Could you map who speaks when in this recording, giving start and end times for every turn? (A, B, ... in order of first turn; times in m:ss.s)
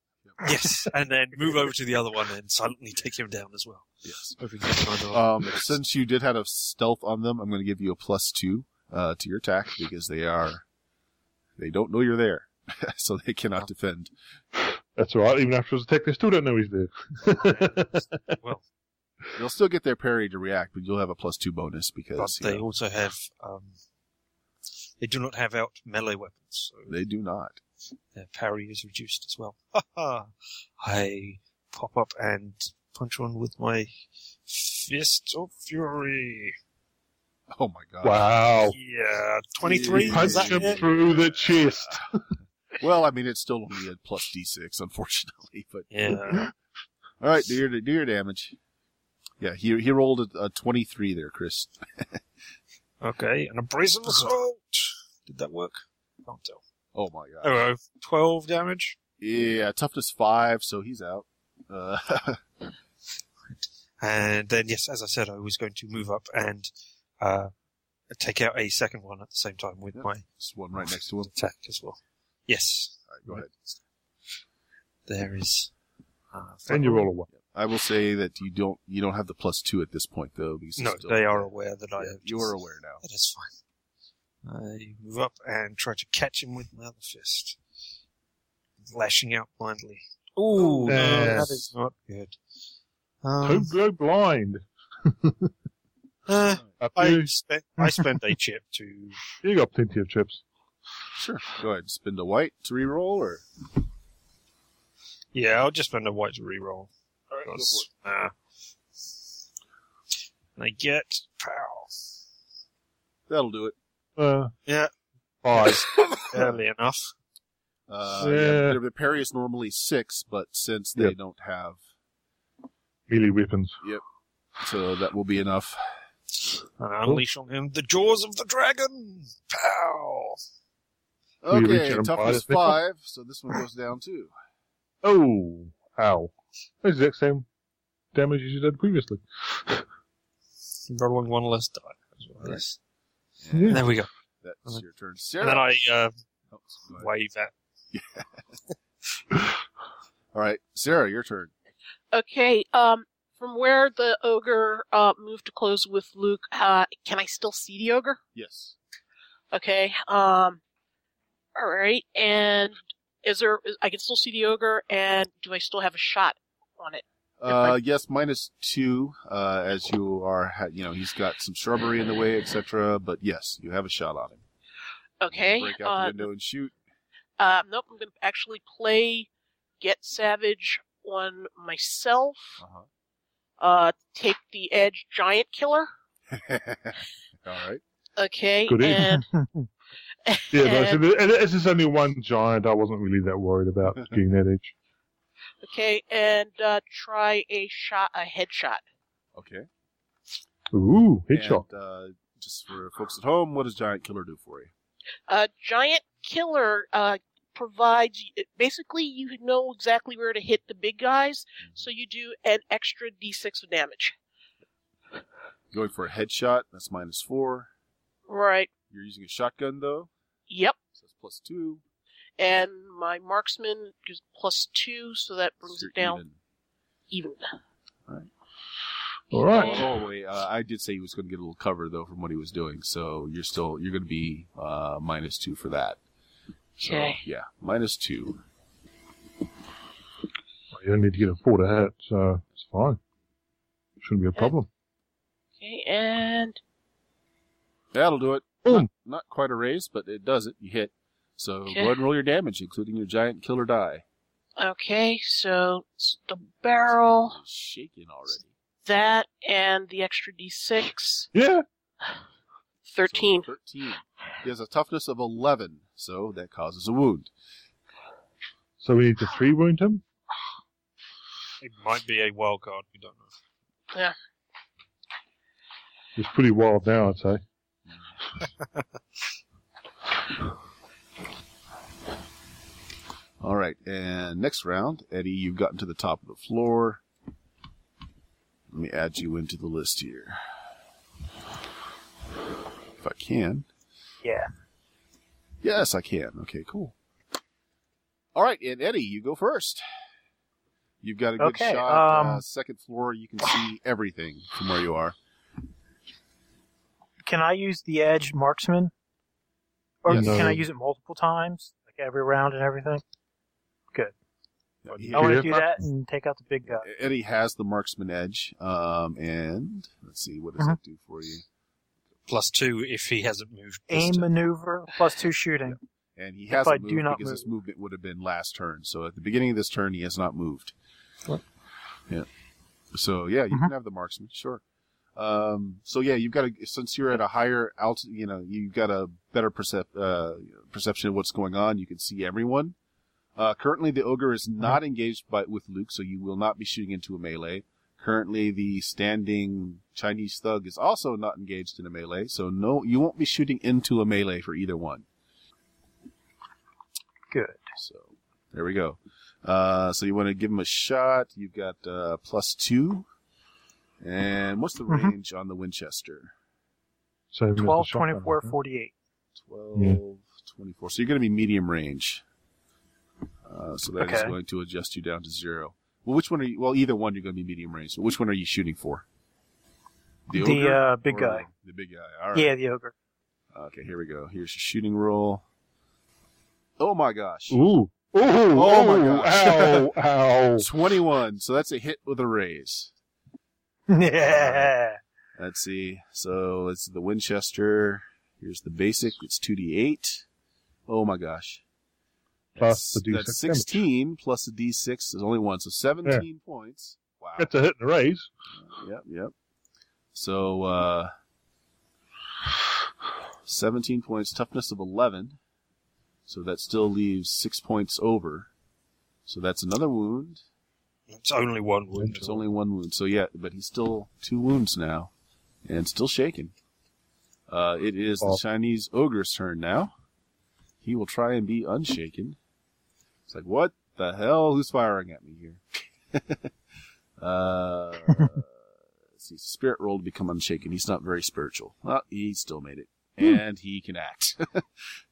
0:00.4-0:05.7 A
0:04.0-0:04.4 B
0:05.1-0:10.6 B
0:11.6-0:14.1 B
0:14.9-0:18.4 C
0:17.2-0:18.6 A
0:19.3-0:22.6 B
0:22.2-0:23.8 A
0:25.0-0:26.9 A
0:26.9-0:27.6 B
0:28.1-0:33.9 A
0:34.5-0:36.6 A
0:37.6-0:38.3 B
0:38.0-0:38.8 C
0:38.6-0:40.8 A
0:39.6-0:42.0 B
0:39.9-0:42.2 C
0:42.8-0:46.4 B
0:45.9-0:46.5 A
0:47.2-0:48.6 B
0:49.4-0:52.2 B
0:53.0-0:56.6 A
0:56.9-0:57.6 B
0:57.4-0:59.0 A
0:59.2-1:02.4 B
1:04.0-1:07.5 A
1:08.1-1:10.2 A
1:09.9-1:11.3 B
1:11.3-1:13.0 A
1:13.1-1:13.5 B
1:15.1-1:15.7 A
1:16.3-1:17.1 A
1:16.7-1:17.3 C
1:17.3-1:23.0 B
1:20.8-1:23.5 A
1:24.4-1:27.6 A
1:28.9-1:32.4 A
1:30.6-1:31.0 D
1:30.8-1:31.7 C
1:33.2-1:33.7 A
1:33.4-1:35.5 C
1:36.2-1:39.2 A
1:36.8-1:37.3 C
1:39.4-1:40.4 C
1:41.2-1:43.4 B
1:45.3-1:48.3 A
1:47.5-1:47.8 B
1:50.6-1:52.1 A
1:53.3-1:53.7 B
1:54.2-1:54.5 C
1:54.6-1:54.9 A
1:55.4-1:55.8 C
1:55.5-1:57.1 A
1:57.9-2:01.8 B
1:58.2-1:58.8 C
2:03.1-2:03.8 C
2:04.6-2:05.8 B
2:06.8-2:10.4 A
2:11.4-2:14.3 B
2:11.5-2:12.8 C
2:15.0-2:17.4 C
2:18.1-2:19.8 C
2:20.9-2:22.8 A
2:23.4-2:25.8 B
2:23.5-2:23.8 C
2:23.7-2:24.1 A
2:25.4-2:26.1 A
2:26.5-2:27.1 B
2:27.0-2:27.5 A
2:27.9-2:28.3 B
2:30.3-2:31.5 B
2:32.1-2:38.2 D
2:38.3-2:38.7 B
2:39.5-2:40.6 D
2:41.5-2:47.8 D
2:47.4-2:54.4 B
2:55.2-2:56.2 D
2:55.3-2:56.7 B
2:57.4-2:59.3 D
2:59.8-3:02.6 D
3:02.6-3:02.9 B
3:03.6-3:05.9 D
3:06.3-3:07.8 B
3:08.2-3:09.3 D
3:08.7-3:09.1 C
3:09.1-3:09.6 E
3:10.2-3:11.0 D
3:10.5-3:14.7 C
3:15.6-3:18.8 D
3:19.3-3:19.7 B
3:20.7-3:21.6 C
3:21.3-3:24.7 B
3:25.3-3:34.1 D
3:35.7-3:37.7 B
3:38.3-3:38.7 D
3:38.9-3:40.1 B
3:40.5-3:40.8 D
3:41.0-3:41.8 B
3:42.4-3:46.2 D
3:45.7-3:46.4 B
3:47.1-3:47.4 D
3:49.3-3:49.8 C
3:49.3-3:49.9 D
3:49.5-3:56.0 B
3:56.8-3:58.4 B
3:56.8-3:57.2 D
4:00.7-4:03.0 C
4:04.0-4:04.7 C
4:05.6-4:06.6 D
4:07.9-4:14.0 B
4:14.6-4:17.4 D
4:17.3-4:18.5 B
4:18.8-4:21.3 D
4:21.3-4:21.6 C
4:22.9-4:23.5 D
4:23.0-4:27.3 B
4:28.8-4:30.0 C
4:31.6-4:33.3 A
4:36.2-4:37.4 C
4:43.4-4:47.0 B
4:48.7-4:50.4 B
4:53.0-4:53.7 B
4:54.2-4:54.5 E
4:55.6-4:56.9 B
4:58.3-4:59.8 B
5:01.0-5:05.2 B
5:01.4-5:02.4 E
5:07.2-5:08.9 E
5:10.0-5:13.0 E
5:10.1-5:10.6 B
5:10.1-5:10.6 C
5:14.8-5:15.6 B
5:15.1-5:16.8 E
5:15.1-5:15.8 C
5:16.7-5:21.4 B
5:22.3-5:24.3 A
5:23.9-5:25.8 E
5:25.7-5:30.7 B
5:26.5-5:27.5 E
5:32.9-5:34.6 B
5:35.2-5:42.7 B
5:43.4-5:55.0 B
5:57.3-5:57.6 E
5:57.8-6:03.1 B
6:04.0-6:06.3 B
6:04.9-6:05.1 E
6:07.3-6:08.5 C
6:07.6-6:08.9 E
6:09.4-6:12.2 B
6:13.4-6:19.0 B
6:14.0-6:14.3 E
6:20.3-6:22.5 B
6:20.3-6:21.5 E
6:22.3-6:22.9 E
6:23.5-6:25.4 B
6:26.8-6:27.6 B
6:27.5-6:30.6 C
6:28.5-6:29.9 B
6:30.6-6:32.9 B
6:33.9-6:35.0 E
6:34.2-6:34.7 B
6:35.4-6:40.2 B
6:40.9-6:41.6 B
6:42.5-6:47.5 B
6:42.6-6:43.8 C
6:47.4-6:48.3 C
6:48.6-6:49.3 B
6:50.1-6:51.1 B
6:53.4-6:55.4 B
6:56.3-6:58.5 B
6:59.3-7:00.4 B
7:01.1-7:02.4 A
7:02.1-7:05.1 B
7:05.6-7:06.5 B
7:07.5-7:09.9 B
7:10.8-7:12.4 B
7:13.3-7:15.6 B
7:16.1-7:16.5 B
7:17.2-7:18.5 B
7:19.2-7:24.6 B